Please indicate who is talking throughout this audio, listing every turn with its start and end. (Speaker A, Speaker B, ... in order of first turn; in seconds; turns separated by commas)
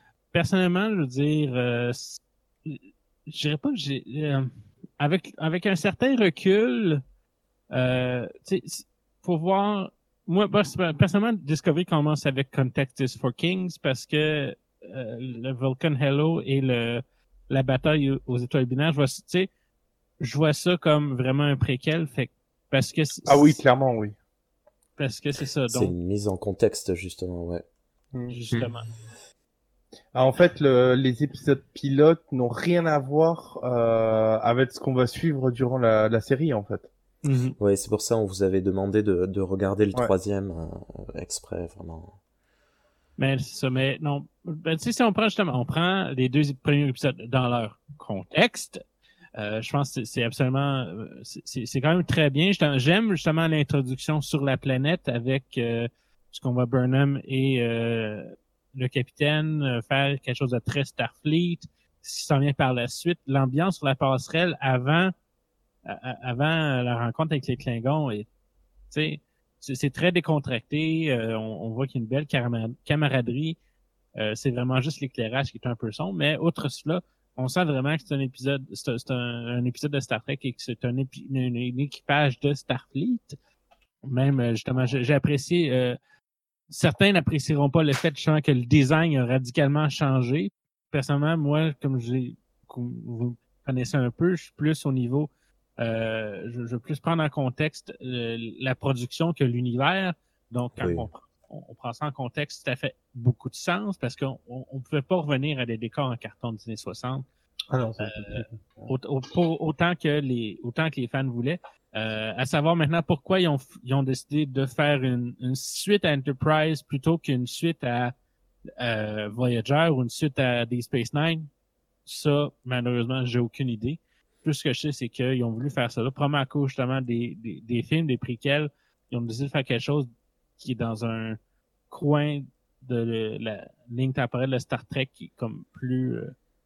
Speaker A: 0.3-7.0, Speaker A: 7.7-19.5, Speaker A: 20.2-23.6, Speaker B: 23.3-24.1, Speaker A: 25.0-25.9, Speaker C: 25.7-27.6, Speaker A: 28.3-28.9, Speaker B: 30.1-36.9, Speaker A: 37.2-37.5, Speaker C: 37.6-42.1, Speaker A: 43.2-48.8, Speaker A: 49.4-65.1, Speaker A: 65.9-68.3, Speaker A: 68.9-73.6, Speaker A: 74.2-83.4, Speaker A: 84.0-86.0, Speaker A: 86.7-107.2, Speaker C: 100.8-101.1, Speaker B: 107.7-108.9, Speaker A: 108.0-118.1, Speaker A: 118.8-121.5, Speaker A: 122.0-130.1, Speaker A: 130.6-131.4, Speaker A: 131.9-136.3